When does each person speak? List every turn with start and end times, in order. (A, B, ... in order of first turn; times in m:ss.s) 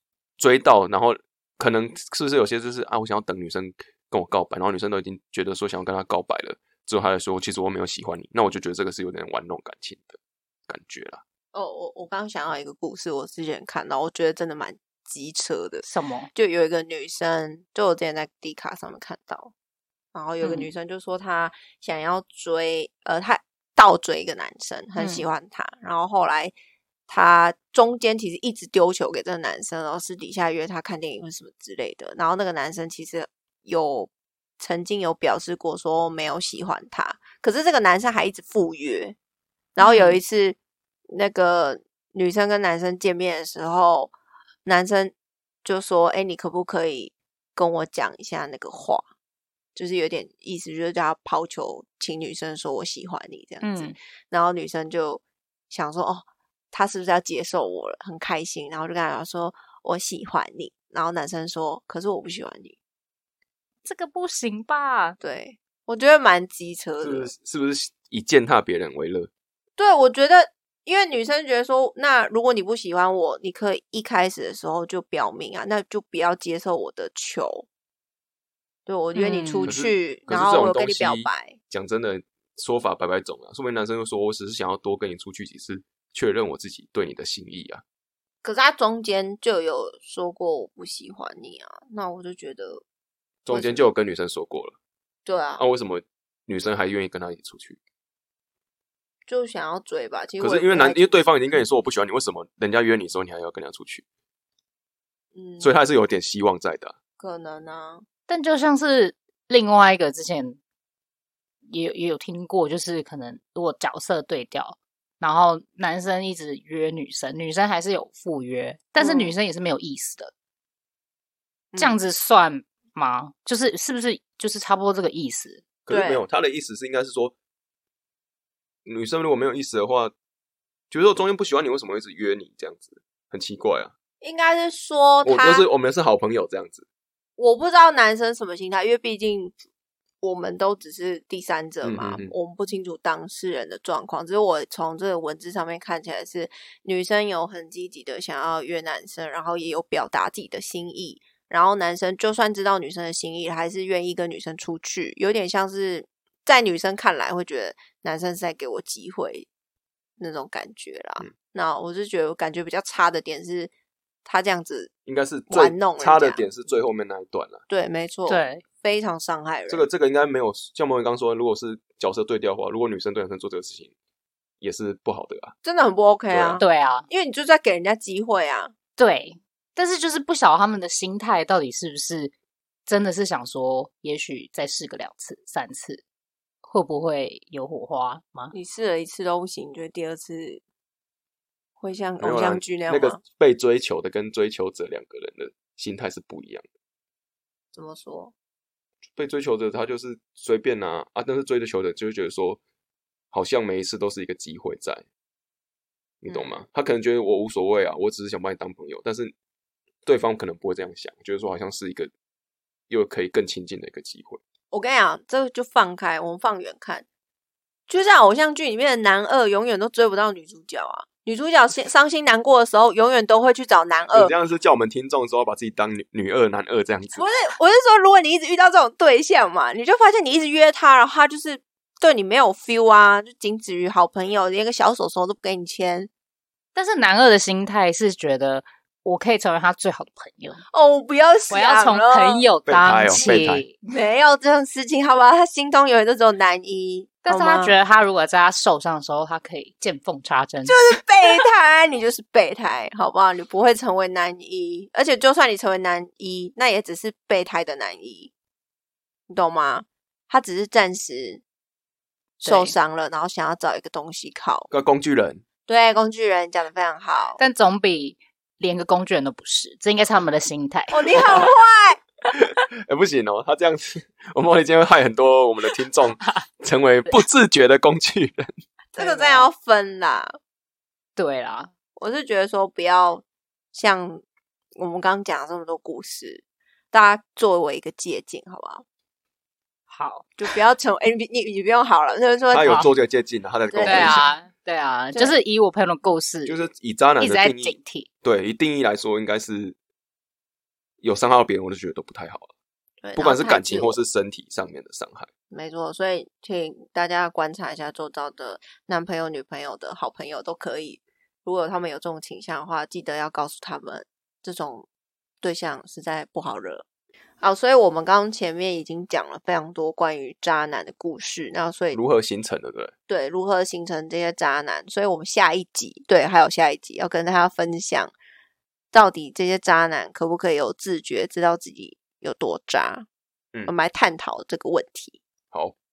0:00.4-0:11.2 A
0:11.5-0:19.5 B
0:15.8-0:16.3 C
0:20.1-0:26.5 B
0:20.4-0:20.7 C
0:25.0-0:25.2 C
0:27.1-0:39.2 B
0:39.8-0:40.6 B
0:39.8-0:40.2 C
0:41.1-0:44.1 B
0:44.6-0:49.1 B
0:49.7-1:02.8 B
0:53.6-0:54.0 C
1:03.8-1:05.2 C
1:05.2-1:07.3 B
1:07.0-1:09.3 A
1:09.8-1:17.7 B
1:18.9-1:21.6 B
1:19.1-1:19.7 C
1:19.6-1:27.8 A
1:28.4-1:32.8 B
1:33.4-1:34.8 A
1:33.5-1:33.9 B
1:35.2-1:35.6 B
1:35.6-1:37.8 A
1:39.3-1:41.3 B
1:40.4-1:44.0 A
1:45.3-1:45.7 B
1:45.6-1:46.9 A
1:47.2-1:48.0 B
1:48.3-1:50.6 C
1:51.7-2:00.3 C
1:59.0-1:59.3 B
2:01.7-2:02.0 B
2:01.8-2:05.6 C
2:05.9-2:07.3 A
2:05.9-2:06.2 B
2:08.9-2:10.1 A
2:10.9-2:13.9 A
2:14.2-2:15.7 B
2:15.2-2:16.8 A
2:17.4-2:19.6 B
2:20.2-2:39.5 B
2:21.8-2:22.3 A
2:40.2-2:43.7 B
2:44.2-2:44.9 B
2:45.0-2:47.6 A
2:45.5-2:46.5 B
2:47.7-2:49.9 B
2:48.3-2:48.6 C
2:49.7-2:53.9 A
2:54.6-2:55.5 A
2:55.6-2:58.7 B
2:56.3-2:56.6 A
2:56.6-2:57.0 C
2:59.0-3:02.3 C
3:02.9-3:06.0 C
3:06.6-3:08.5 C
3:08.5-3:10.6 B
3:11.8-3:13.2 B
3:12.2-3:16.6 A
3:17.7-3:18.3 B
3:19.1-3:22.6 A
3:23.3-3:25.0 A
3:26.2-3:29.3 A
3:26.3-3:26.6 B
3:30.0-3:32.1 A
3:32.9-3:34.4 A
3:34.7-3:37.0 B
3:37.9-3:44.3 B
3:44.1-3:47.3 A
3:47.1-3:56.1 B
3:56.7-4:00.6 C
4:00.7-4:02.5 B
4:01.5-4:03.8 C
4:02.7-4:03.6 A
4:03.9-4:07.8 B
4:07.2-4:10.9 C
4:10.6-4:18.3 B
4:19.3-4:21.4 B
4:22.4-4:22.7 C
4:22.4-4:24.7 B
4:24.7-4:25.4 A
4:25.7-4:27.4 B
4:27.4-4:31.4 C
4:30.9-4:32.0 B
4:32.3-4:38.5 A
4:38.9-4:40.4 B
4:39.0-4:39.5 C
4:41.2-4:41.7 C
4:42.0-4:44.2 B
4:44.8-4:48.8 B
4:49.9-4:50.3 C
4:50.4-4:52.9 B
4:52.5-4:54.2 A
4:53.7-4:54.3 B
4:53.8-4:56.6 C
4:56.4-4:59.8 A
4:57.2-4:58.1 C
5:01.0-5:02.5 A
5:03.0-5:04.0 B
5:03.2-5:05.3 A
5:05.5-5:14.9 B
5:15.4-5:16.9 B
5:17.4-5:22.0 B
5:21.9-5:22.9 A
5:23.1-5:28.1 B
5:28.9-5:33.0 B
5:33.7-5:35.2 B